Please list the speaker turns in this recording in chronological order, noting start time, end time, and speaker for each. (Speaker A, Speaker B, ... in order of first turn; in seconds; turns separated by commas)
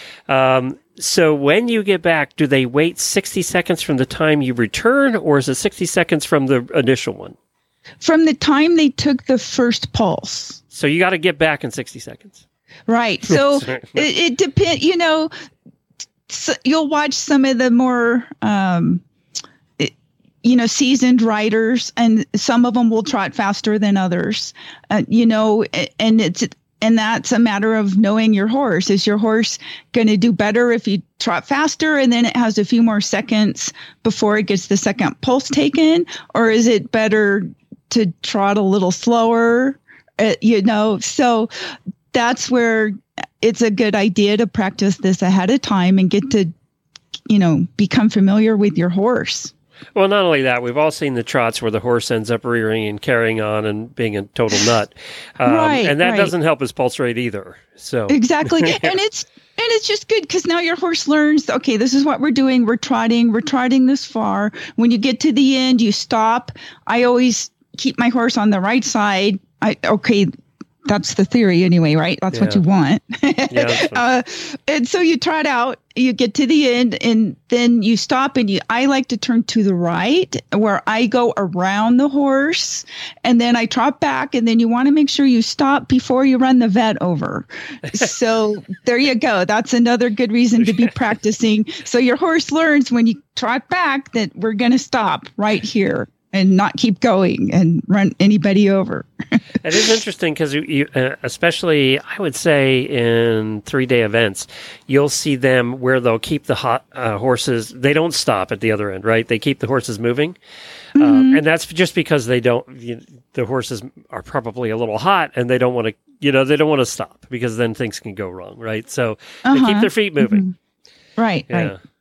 Speaker A: 0.3-7.3, Speaker B: 8.0-10.6, Speaker A: 10.7-12.4, Speaker B: 12.9-15.3, Speaker A: 13.3-14.1, Speaker B: 16.3-19.0, Speaker B: 19.8-41.5, Speaker B: 42.1-46.5, Speaker B: 47.3-49.5, Speaker A: 49.9-59.0, Speaker B: 55.4-56.3, Speaker B: 58.1-70.3, Speaker B: 70.8-99.1, Speaker A: 72.3-72.6, Speaker A: 73.5-74.0, Speaker A: 99.6-110.3, Speaker B: 111.0-111.4, Speaker A: 111.0-120.4, Speaker B: 119.4-120.5, Speaker B: 121.2-121.7, Speaker A: 121.5-121.8